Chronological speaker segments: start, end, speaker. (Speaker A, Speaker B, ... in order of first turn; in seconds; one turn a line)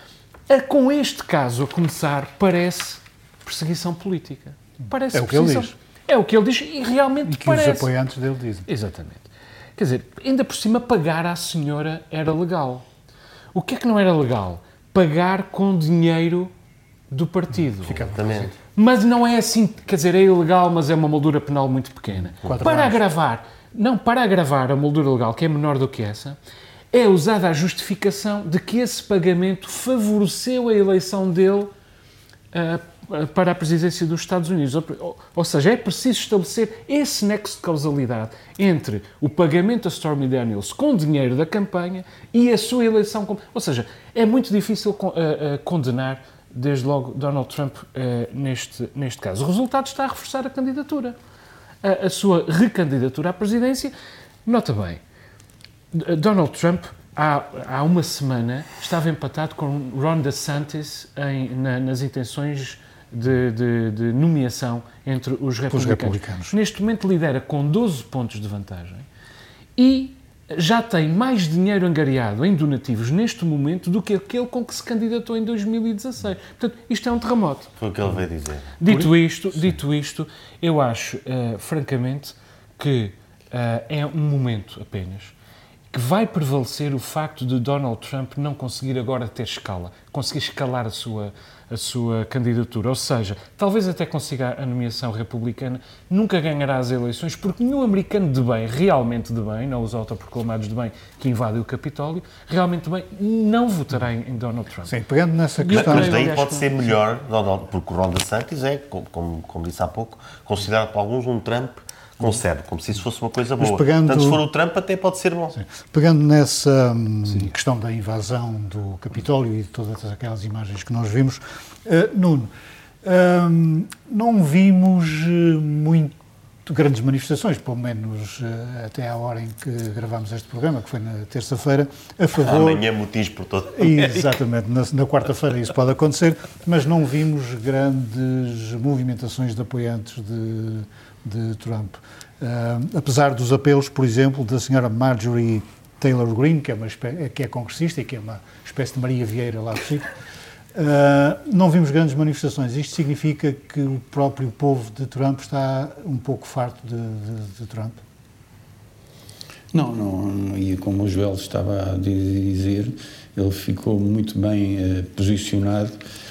Speaker A: 0.5-7.9
Speaker B: 5.1-5.7
Speaker B: 7.3-8.7
Speaker A: 8.7-12.8
Speaker A: 13.5-16.5
Speaker A: 17.1-18.1
Speaker C: 17.8-18.5
Speaker B: 17.9-18.5
Speaker A: 18.8-26.4
Speaker B: 22.4-23.0
Speaker A: 26.9-31.7
Speaker A: 32.5-51.2
Speaker A: 51.8-53.9
Speaker A: 54.5-55.0
Speaker A: 55.9-69.1
Speaker B: 65.7-66.5
Speaker A: 69.8-77.7
Speaker C: 77.8-78.9
Speaker A: 78.8-85.3
Speaker A: 85.9-104.9
Speaker B: 104.9-106.4
Speaker A: 105.6-106.7
Speaker C: 105.7-115.6
Speaker B: 113.6-114.4
Speaker B: 115.6-122.5
Speaker B: 123.0-126.2
Speaker B: 126.7-132.8
Speaker C: 132.4-134.4
Speaker B: 133.8-150.1
Speaker B: 150.7-158.0
Speaker D: 159.7-166.0